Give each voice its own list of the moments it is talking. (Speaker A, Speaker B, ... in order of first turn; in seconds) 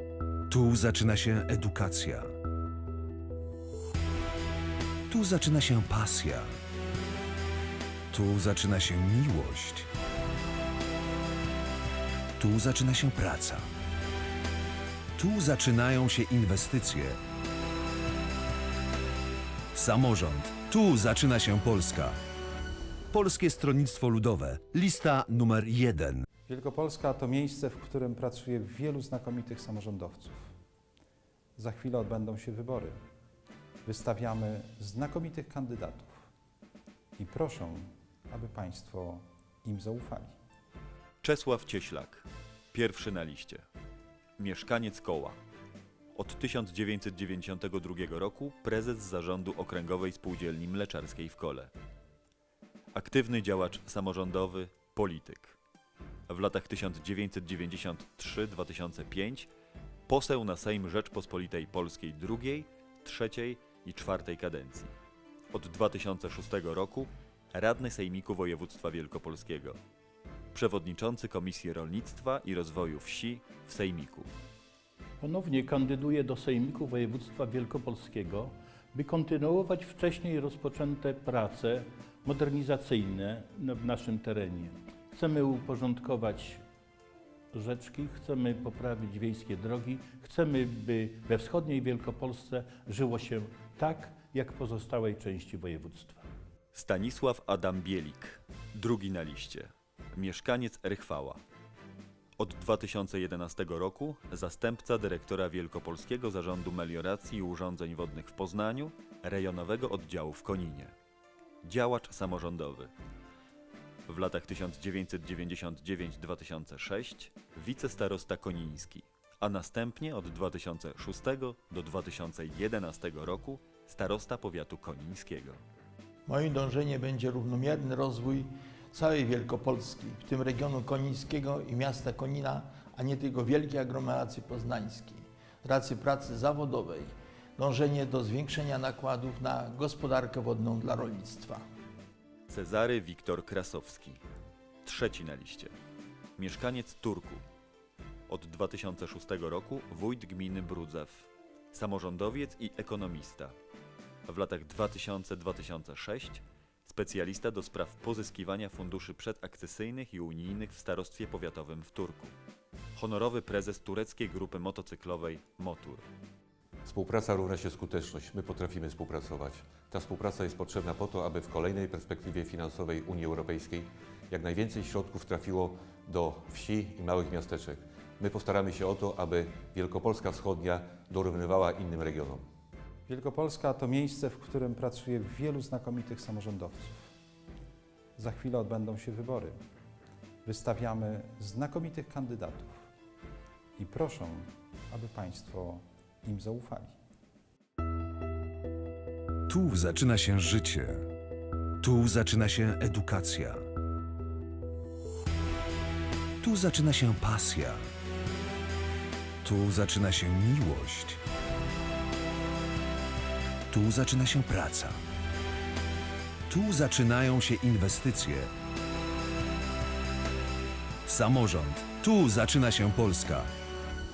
Speaker A: 0.5-2.3, 5.1-6.5, 8.1-9.9, 12.4-13.6, 15.2-17.2, 19.7-22.2, 23.1-26.2, 199.5-201.1, 201.8-203.6, 206.4-207.9, 209.4-211.2, 213.7-215.0, 216.5-218.5, 221.1-223.5
Speaker B: 26.5-30.5, 31.6-33.0, 33.9-36.3, 37.2-40.3, 183.1-187.1, 188.2-189.6, 190.4-192.7, 193.8-196.9
Speaker C: 41.2-43.6, 44.4-45.4, 46.1-51.7, 52.9-55.6, 56.3-59.5, 60.1-64.9, 65.5-69.8, 70.5-74.3, 96.7-101.4, 102.4-110.9, 111.6-112.9, 114.1-125.6, 142.5-144.2, 144.8-145.7, 146.4-147.4, 148.3-153.6, 154.3-162.3, 162.9-166.0
Speaker D: 75.2-86.6, 87.5-96.2
Speaker E: 126.3-141.6
Speaker F: 166.8-182.4